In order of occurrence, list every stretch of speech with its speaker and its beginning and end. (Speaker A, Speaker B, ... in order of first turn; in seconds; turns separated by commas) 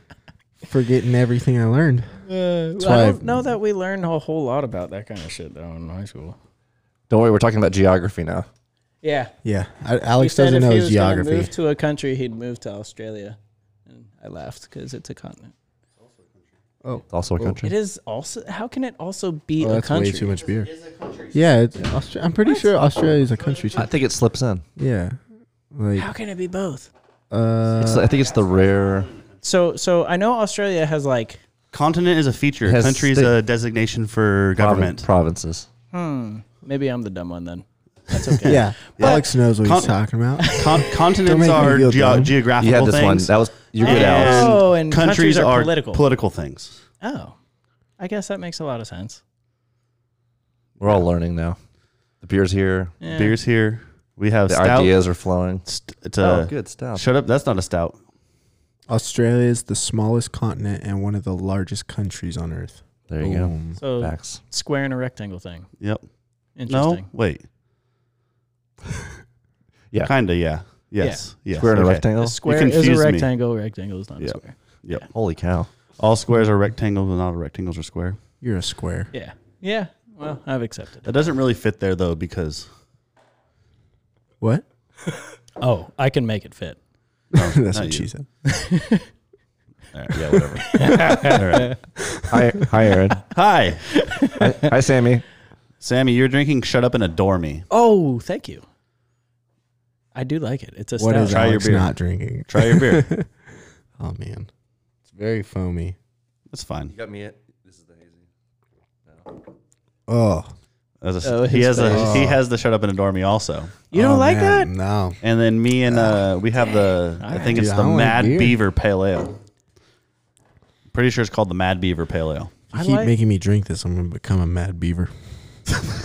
Speaker A: 0.6-2.2, Speaker B: 2.2-6.4, Speaker A: 2.8-3.5, Speaker C: 7.1-8.5, Speaker B: 9.0-9.3, Speaker A: 9.4-11.5, Speaker B: 10.2-15.5, Speaker A: 16.8-17.6, Speaker C: 17.1-17.7, Speaker B: 17.6-20.4, Speaker A: 19.6-20.7, Speaker D: 20.8-21.3, Speaker A: 21.3-23.9, Speaker C: 23.8-24.6, Speaker A: 24.8-25.2, Speaker A: 25.7-26.1, Speaker B: 25.9-26.9, Speaker A: 27.3-28.2, Speaker C: 27.8-29.1, Speaker B: 29.4-31.4, Speaker D: 31.7-35.1, Speaker C: 32.6-33.3, Speaker C: 34.6-35.7, Speaker B: 35.9-39.2, Speaker A: 38.4-40.6, Speaker D: 39.0-39.9, Speaker B: 40.4-40.7, Speaker D: 40.5-46.8, Speaker A: 41.2-42.4, Speaker C: 42.6-44.6, Speaker B: 43.8-46.0, Speaker B: 47.0-47.4, Speaker B: 48.0-49.2, Speaker C: 50.8-51.6, Speaker C: 52.2-52.9, Speaker B: 53.0-53.4, Speaker D: 53.1-54.9, Speaker C: 54.5-55.6, Speaker D: 55.6-58.0, Speaker C: 56.2-57.0, Speaker A: 58.9-63.8, Speaker C: 63.1-64.4, Speaker B: 63.8-65.7, Speaker B: 66.6-67.1, Speaker D: 66.7-67.4, Speaker D: 70.0-73.3, Speaker B: 71.0-71.3, Speaker C: 71.5-72.4, Speaker B: 72.2-75.0, Speaker D: 74.2-75.1, Speaker C: 75.1-75.7, Speaker D: 76.0-78.2, Speaker A: 78.4-79.1, Speaker B: 79.1-81.3, Speaker D: 81.0-82.7, Speaker B: 85.6-86.8, Speaker A: 87.3-88.2, Speaker D: 87.3-88.1, Speaker B: 88.4-89.1, Speaker D: 89.9-91.8, Speaker B: 90.6-91.8, Speaker A: 90.7-91.4, Speaker A: 92.0-92.6, Speaker C: 92.3-93.3, Speaker D: 93.3-93.9, Speaker B: 93.9-94.7, Speaker C: 94.4-95.2, Speaker D: 95.8-97.7, Speaker B: 97.7-98.6, Speaker B: 100.1-101.5, Speaker A: 101.0-103.3, Speaker D: 101.2-101.9, Speaker D: 102.5-103.1, Speaker A: 104.0-104.5, Speaker A: 105.0-106.0, Speaker D: 106.5-106.9, Speaker C: 106.9-108.3, Speaker C: 109.1-109.3, Speaker A: 110.1-110.5, Speaker D: 111.0-113.7, Speaker B: 111.2-112.3, Speaker A: 111.9-112.4, Speaker B: 113.9-114.7, Speaker A: 113.9-115.2, Speaker D: 115.2-119.4, Speaker A: 115.9-116.2, Speaker B: 117.2-117.6, Speaker A: 117.5-118.6, Speaker D: 120.9-122.5, Speaker B: 122.7-123.1, Speaker A: 122.7-125.1